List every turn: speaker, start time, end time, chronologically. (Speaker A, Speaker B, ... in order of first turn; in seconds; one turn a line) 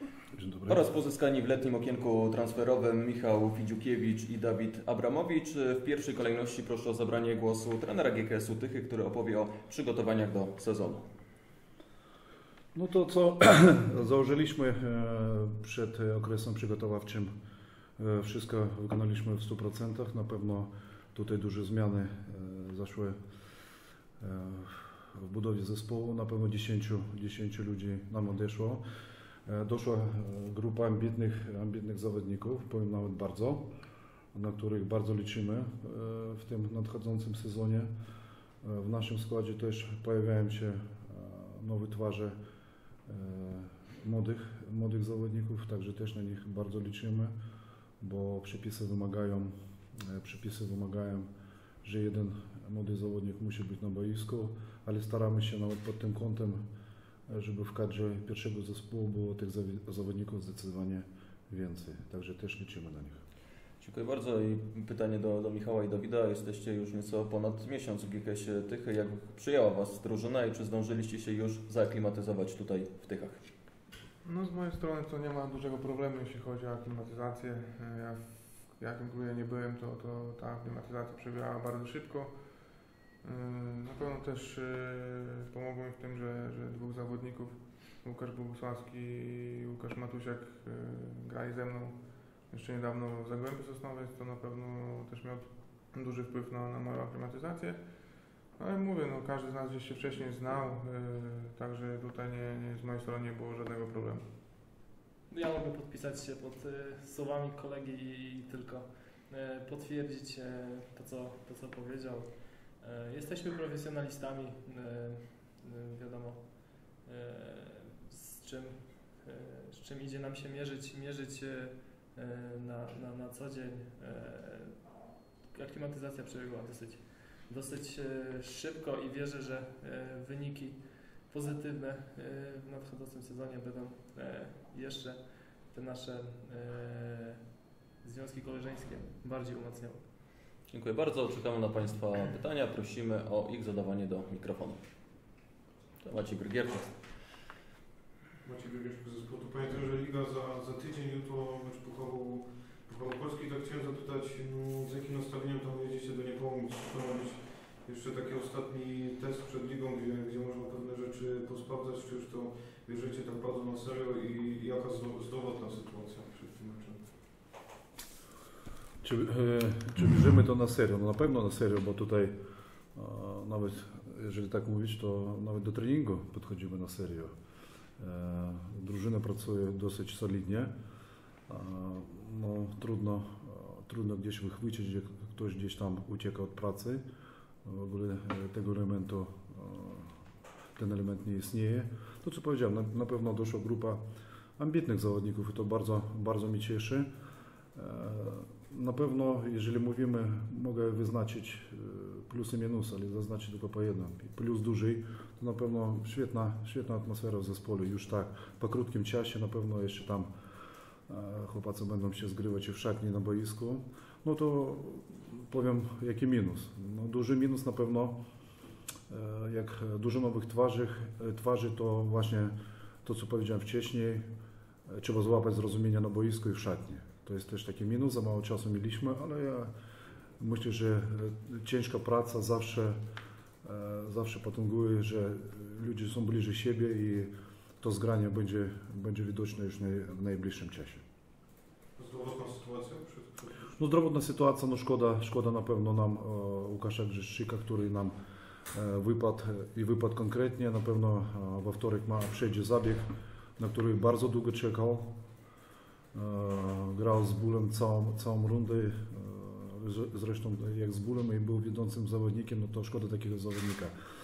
Speaker A: 0.3-0.8
Speaker B: 0.7-11.0
Speaker A: 12.7-17.3
Speaker A: 18.0-23.2
Speaker A: 24.2-28.8
Speaker A: 29.4-33.7
Speaker A: 34.3-37.9
Speaker A: 38.6-42.4
Speaker A: 43.0-47.3
Speaker A: 48.0-51.3
Speaker A: 51.8-56.6
Speaker A: 57.3-63.2
Speaker B: 63.8-73.4
Speaker C: 74.2-104.2
Speaker D: 105.3-140.1
Speaker B: 140.7-145.4
Speaker B: 146.0-146.9
Speaker E: 148.4-167.0
Speaker A: 169.0-172.3
Speaker A: 172.9-177.3
Speaker A: 178.0-180.7
Speaker A: 181.5-187.0
Speaker A: 187.6-190.2
Speaker A: 190.8-194.0
Speaker A: 194.6-197.1
Speaker A: 197.7-210.3
Speaker A: 211.1-218.2
Speaker A: 219.1-224.3
Speaker A: 224.9-229.7
Speaker A: 230.4-233.0
Speaker A: 233.6-241.0
Speaker E: 241.9-243.7
Speaker A: 243.8-248.1
Speaker A: 248.7-253.0
Speaker A: 253.6-255.1
Speaker A: 256.1-263.9